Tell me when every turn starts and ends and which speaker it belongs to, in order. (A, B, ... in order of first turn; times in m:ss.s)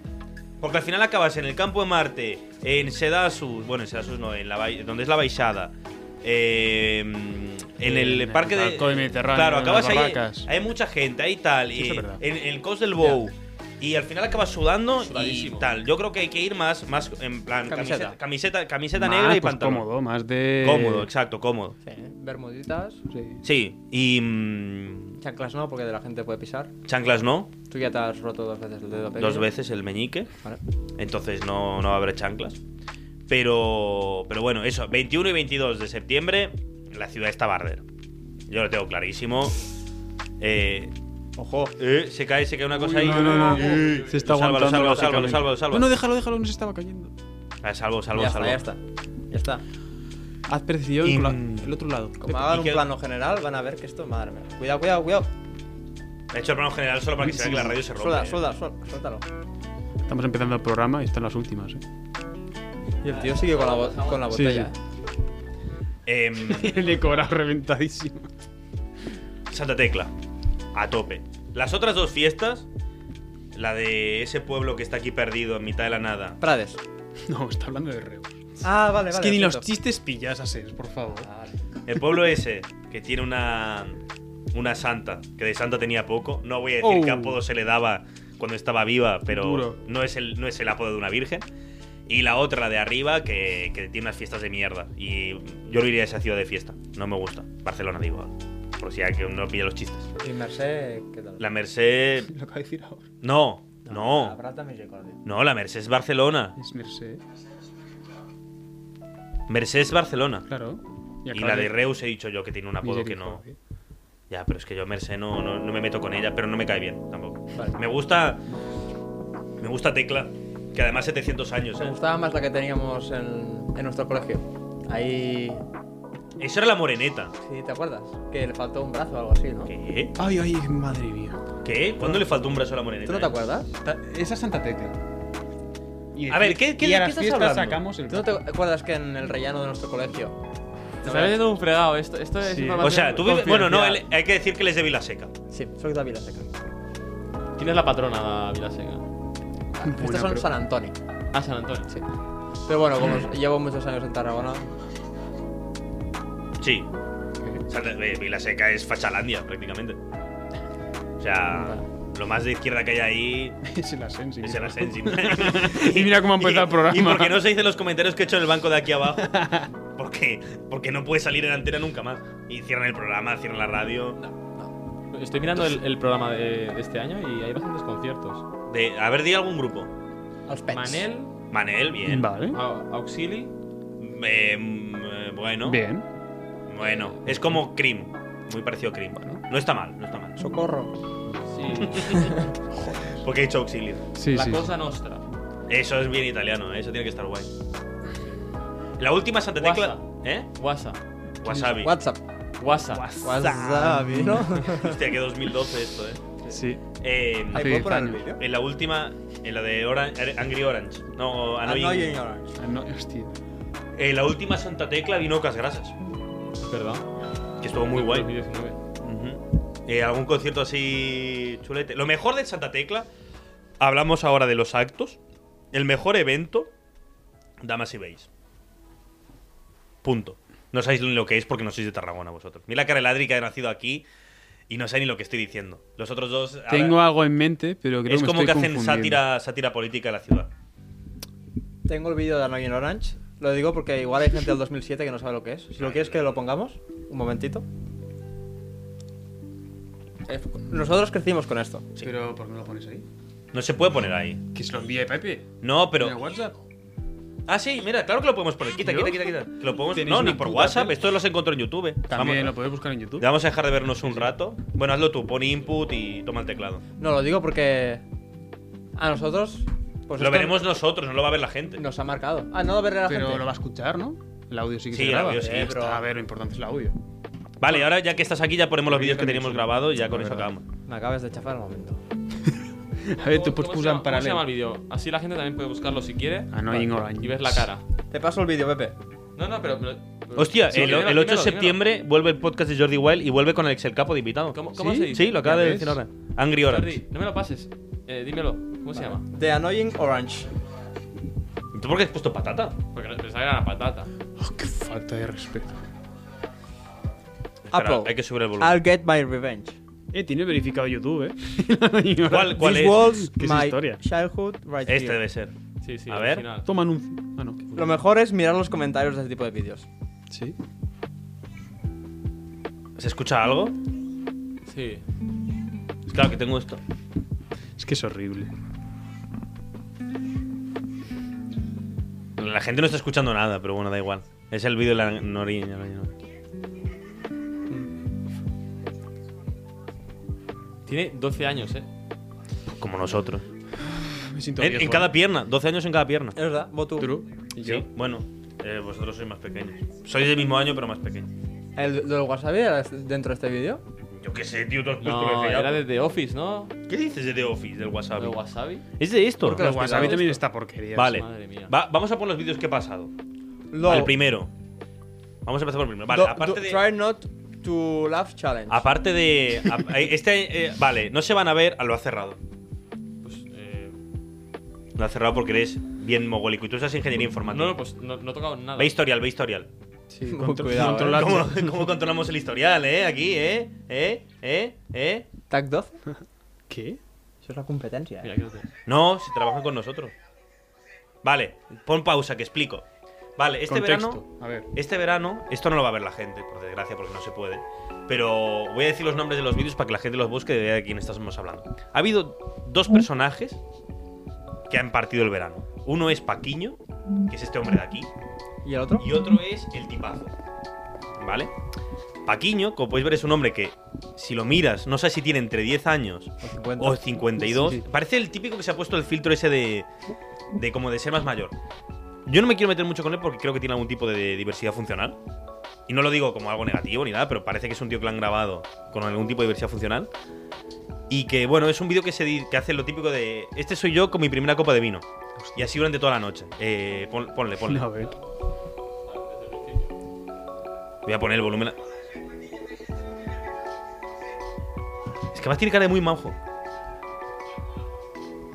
0:00.6-0:19.9 A
0:07.8-0:10.5 B
0:11.7-0:12.2 B
0:15.0-0:15.7 C
0:17.7-0:18.2 D
0:18.9-0:21.1 B
0:20.6-0:21.8 A
0:21.8-0:23.0 D
0:23.1-0:23.4 B
0:23.4-0:25.2 A
0:25.2-0:26.7 D
0:26.8-0:27.5 A
0:27.7-0:29.5 D
0:29.2-0:30.3 A
0:31.0-0:32.6 A
0:33.3-0:37.8 A
0:38.5-0:39.6 A
0:40.4-0:40.9 A
0:41.4-0:41.7 D
0:41.8-0:45.9 A
0:42.7-0:47.1 B
0:43.0-0:44.3 C
0:47.6-0:48.6 A
0:48.1-0:49.6 D
0:50.5-0:52.6 B
0:51.0-0:51.7 A
0:52.2-0:55.3 D
0:52.4-0:52.8 A
0:56.3-0:58.4 A
0:57.2-0:57.8 B
0:57.9-0:59.2 D
1:00.0-1:01.8 B
1:03.0-1:04.7 D
1:03.0-1:04.5 C
1:04.3-1:04.7 B
1:06.0-1:06.9 A
1:06.4-1:08.3 B
1:09.5-1:10.1 A
1:10.7-1:12.7 A
1:13.5-1:16.4 A
1:16.4-1:16.8 D
1:17.3-1:21.3 B
1:18.6-1:19.7 D
1:21.2-1:21.5 D
1:21.8-1:24.0 A
1:24.5-1:31.4 A
1:26.8-1:27.4 B
1:29.3-1:29.8 B
1:32.1-1:40.1 A
1:40.2-1:41.4 D
1:41.4-1:42.3 A
1:42.3-1:43.0 B
1:43.2-1:44.4 A
1:43.8-1:45.2 D
1:45.2-1:46.6 A
1:46.6-1:47.2 B
1:49.5-1:50.5 A
1:50.5-1:51.8 B
1:51.3-1:53.4 A
1:52.8-1:53.6 B
1:54.3-1:58.4 A
1:59.6-2:02.0 A
2:01.8-2:05.6 D
2:06.4-2:07.3 A
2:07.4-2:09.7 D
2:09.7-2:10.2 A
2:10.2-2:11.4 B
2:11.6-2:13.4 A
2:13.0-2:13.7 D
2:13.8-2:15.0 B
2:16.1-2:18.4 B
2:16.3-2:17.8 A
2:18.1-2:20.4 D
2:21.0-2:21.4 D
2:21.0-2:23.9 C
2:22.4-2:23.1 B
2:22.8-2:25.3 A
2:23.4-2:24.0 D
2:25.5-2:26.5 D
2:27.6-2:29.0 C
2:29.8-2:31.0 D
2:29.8-2:30.5 B
2:31.3-2:31.9 C
2:32.6-2:34.7 D
2:36.6-2:36.9 A
2:37.7-2:40.0 A
2:41.2-2:43.6 A
2:43.6-2:47.5 B
2:44.4-2:54.2 A
2:49.1-2:49.7 B
2:55.1-2:58.4 C
2:58.7-2:59.9 A
3:00.5-3:01.0 D
3:00.7-3:01.3 C
3:01.5-3:02.3 A
3:02.0-3:02.6 B
3:02.5-3:03.5 C
3:04.0-3:05.8 A
3:05.6-3:06.0 B
3:06.7-3:10.4 A
3:09.2-3:09.4 B
3:10.4-3:10.9 D
3:11.4-3:12.4 C
3:11.8-3:12.2 A
3:12.1-3:12.5 D
3:12.7-3:13.2 B
3:13.2-3:14.0 A
3:14.1-3:14.7 B
3:14.3-3:15.2 C
3:15.7-3:17.5 A
3:19.0-3:20.5 A
3:19.6-3:21.0 C
3:21.4-3:21.9 B
3:21.4-3:21.9 A
3:21.8-3:22.2 D
3:22.6-3:23.1 C
3:22.9-3:24.6 B
3:23.2-3:25.0 D
3:24.6-3:26.2 A
3:26.5-3:26.8 B
3:27.0-3:32.2 A
3:27.5-3:28.2 B
3:27.5-3:28.4 D
3:31.6-3:32.5 D
3:32.6-3:33.3 B
3:34.0-3:35.9 A
3:36.6-3:37.1 C
3:37.6-3:38.3 A
3:37.9-3:38.8 C
3:39.0-3:43.1 A
3:43.8-3:45.2 A
3:45.7-3:46.7 A
3:47.6-3:48.3 A
3:50.0-3:54.0 A
3:54.7-3:57.0 A
3:56.7-3:59.2 B
3:58.1-4:00.5 A
4:01.9-4:07.6 D
4:05.8-4:06.2 A
4:10.3-4:11.8 D
4:12.0-4:13.0 B
4:13.5-4:14.4 A
4:14.5-4:16.6 B
4:15.6-4:16.2 A
4:17.5-4:22.6 A
4:18.8-4:19.3 B
4:19.9-4:21.0 B
4:22.1-4:23.3 B
4:23.2-4:26.8 A
4:24.0-4:24.3 B
4:27.0-4:28.0 D
4:29.0-4:30.6 D
4:30.2-4:31.8 A
4:31.8-4:33.5 D
4:33.1-4:37.0 B
4:34.9-4:35.8 A
4:35.3-4:36.1 D
4:37.6-4:40.6 A
4:37.7-4:37.9 B
4:38.8-4:40.5 B
4:40.8-4:42.0 D
4:42.4-4:44.4 B
4:43.2-4:47.8 C
4:46.5-4:47.7 B
4:48.1-4:48.9 D
4:49.4-4:51.8 C
4:50.4-4:57.0 A
4:50.7-4:51.1 B
4:54.5-4:55.5 C
4:54.7-4:56.0 B
4:56.6-4:59.2 C
4:58.9-5:00.5 D
5:01.7-5:02.8 A
5:02.9-5:04.1 C
5:04.4-5:05.8 B
5:07.7-5:08.8 A
5:07.7-5:09.8 D
5:10.1-5:14.0 B
5:12.3-5:13.1 A
5:12.6-5:15.2 D
5:14.9-5:15.5 A
5:15.8-5:16.7 C
5:16.1-5:16.4 A
5:16.6-5:17.6 B
5:17.7-5:19.9 D
5:20.3-5:20.6 B
5:23.0-5:23.8 A
5:24.7-5:25.0 C
5:26.1-5:26.8 A
5:27.8-5:28.5 B
5:32.4-5:36.1 A
5:40.8-5:41.9 C
5:42.8-5:43.4 A
5:43.8-5:45.2 B
5:44.6-5:46.4 A
5:46.3-5:47.2 D
5:47.0-5:47.9 B
5:47.6-5:51.3 A
5:51.8-5:53.8 D
5:54.1-5:55.8 A
5:55.0-5:56.7 C
5:56.9-5:58.3 A
5:58.2-5:58.8 C
5:59.0-5:59.7 A
5:59.4-6:00.2 D
5:59.5-6:01.2 B
5:59.9-6:00.4 C
6:01.0-6:03.1 A
6:01.1-6:01.7 C
6:03.7-6:04.2 D
6:03.8-6:04.5 A
6:05.4-6:06.8 A
6:06.1-6:08.9 D
6:08.7-6:12.4 A
6:13.2-6:13.9 C
6:15.0-6:17.8 A
6:17.5-6:19.0 C
6:18.8-6:19.7 A
6:20.1-6:21.9 B
6:20.3-6:21.4 D
6:20.7-6:25.3 A
6:25.5-6:25.9 D
6:26.7-6:27.0 B
6:27.4-6:28.3 D
6:28.2-6:28.7 C
6:28.8-6:30.1 A
6:31.2-6:32.8 A
6:33.4-6:43.6 A
6:33.6-6:34.7 B
6:44.7-6:48.1 A
6:48.6-6:49.0 D
6:49.0-6:50.3 A
6:51.2-6:51.5 A
6:52.2-6:59.9 A
6:56.4-6:57.2 D
6:57.4-6:57.8 B
7:00.5-7:01.5 A
7:02.2-7:05.2 A
7:05.9-7:10.1 A
7:11.1-7:18.1 A
7:15.4-7:15.7 B
7:17.6-7:18.1 B
7:19.0-7:19.9 C
7:21.0-7:21.8 A
7:25.3-7:26.4 A